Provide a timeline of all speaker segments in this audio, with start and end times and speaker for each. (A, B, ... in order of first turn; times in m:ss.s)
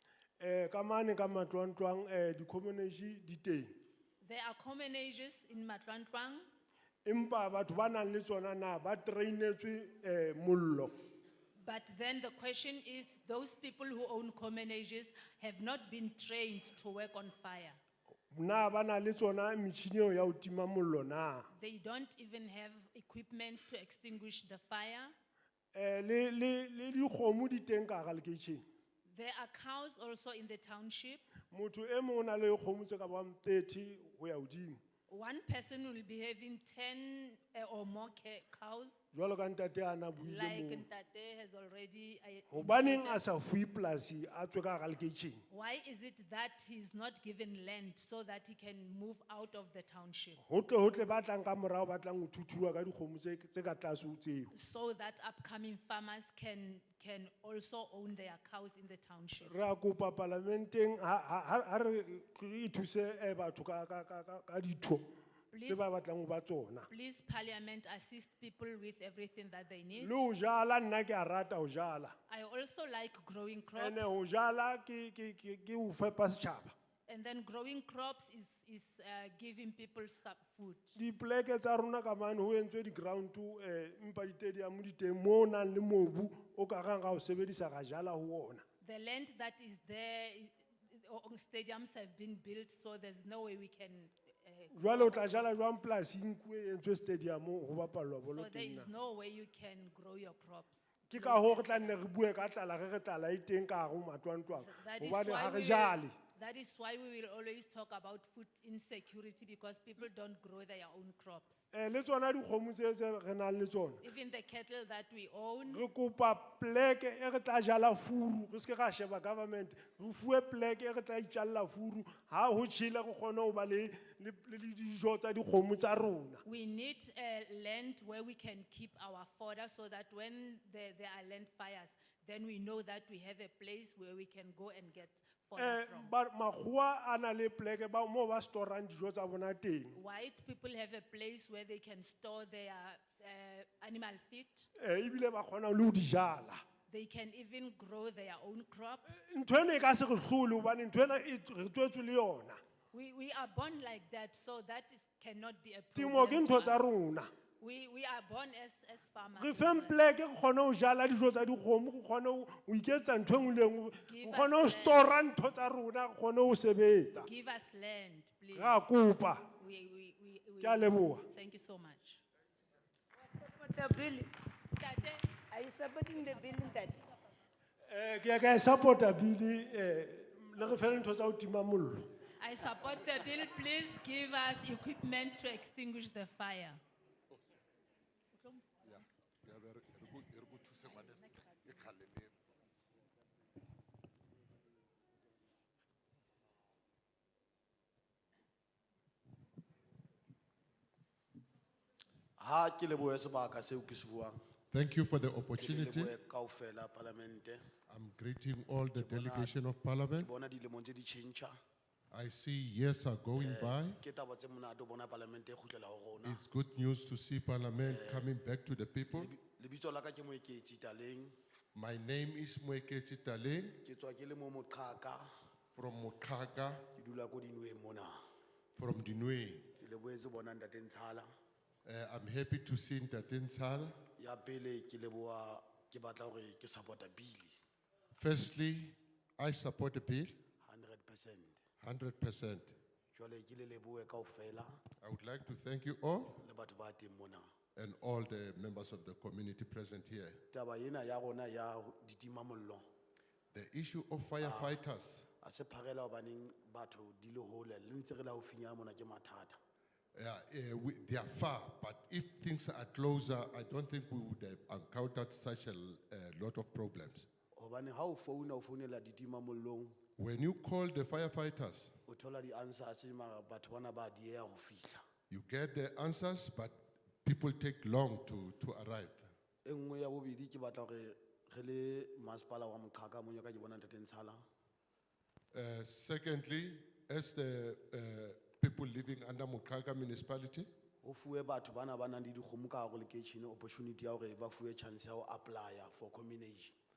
0:00.4-0:03.7 A
0:04.2-0:06.4 B
0:07.0-0:10.9 A
0:11.5-0:17.8 B
0:18.3-0:21.5 A
0:21.5-0:25.1 B
0:25.7-0:28.6 A
0:29.0-0:31.2 B
0:31.5-0:34.8 A
0:35.1-0:38.9 B
0:39.1-0:40.8 A
0:40.2-0:43.2 B
0:42.5-0:45.4 A
0:45.5-0:50.4 B
0:50.4-0:54.5 A
0:54.5-0:59.5 B
0:59.4-1:05.1 A
1:05.5-1:05.8 B
1:05.7-1:06.9 A
1:06.9-1:10.1 B
1:10.0-1:12.1 A
1:12.3-1:14.1 B
1:13.8-1:16.7 A
1:17.1-1:21.0 B
1:21.0-1:28.6 A
1:28.8-1:35.6 B
1:34.7-1:38.9 A
1:38.3-1:41.9 B
1:41.1-1:46.1 A
1:44.6-1:51.6 B
1:51.7-1:54.0 A
1:54.0-1:55.8 B
1:55.7-2:06.4 A
2:06.4-2:16.1 B
2:15.6-2:20.0 A
2:19.9-2:24.7 B
2:24.8-2:26.6 A
2:26.9-2:29.2 B
2:29.1-2:32.6 A
2:32.9-2:36.8 B
2:35.9-2:37.3 A
2:37.6-2:40.0 B
2:39.4-2:47.3 A
2:44.0-2:45.1 B
2:47.2-2:48.8 B
2:48.5-2:49.5 A
2:49.6-2:52.2 B
2:50.6-2:51.2 A
2:53.2-2:54.3 C
2:54.7-2:56.9 B
2:55.5-2:57.0 C
2:57.9-3:02.0 A
3:02.4-3:06.8 B
3:08.8-3:12.3 D
3:10.8-3:11.9 B
3:22.4-3:24.4 E
3:24.7-3:26.1 D
3:25.6-3:27.6 E
3:27.9-3:30.3 D
3:28.9-3:29.5 E
3:30.2-3:31.6 E
3:32.1-3:34.0 D
3:33.4-3:36.4 E
3:36.2-3:39.3 D
3:37.8-3:38.3 E
3:39.1-3:41.3 E
3:41.7-3:43.8 D
3:43.8-3:45.2 E
3:45.7-3:46.8 D
3:46.9-3:48.2 E
3:48.8-3:49.7 D
3:49.8-3:51.3 E
3:51.8-3:54.0 D
3:54.2-3:57.6 E
3:58.1-4:00.4 D
4:00.6-4:01.6 E
4:01.8-4:02.8 D
4:03.1-4:04.8 E
4:05.0-4:06.4 D
4:06.4-4:07.5 E
4:07.8-4:10.4 D
4:10.5-4:12.8 E
4:13.5-4:15.3 D
4:14.4-4:14.8 E
4:15.4-4:19.6 E
4:20.1-4:27.3 D
4:27.5-4:30.0 E
4:30.2-4:31.9 D
4:32.1-4:35.0 E
4:35.3-4:39.3 D
4:39.6-4:44.4 E
4:45.5-4:50.7 D
4:51.0-4:56.7 E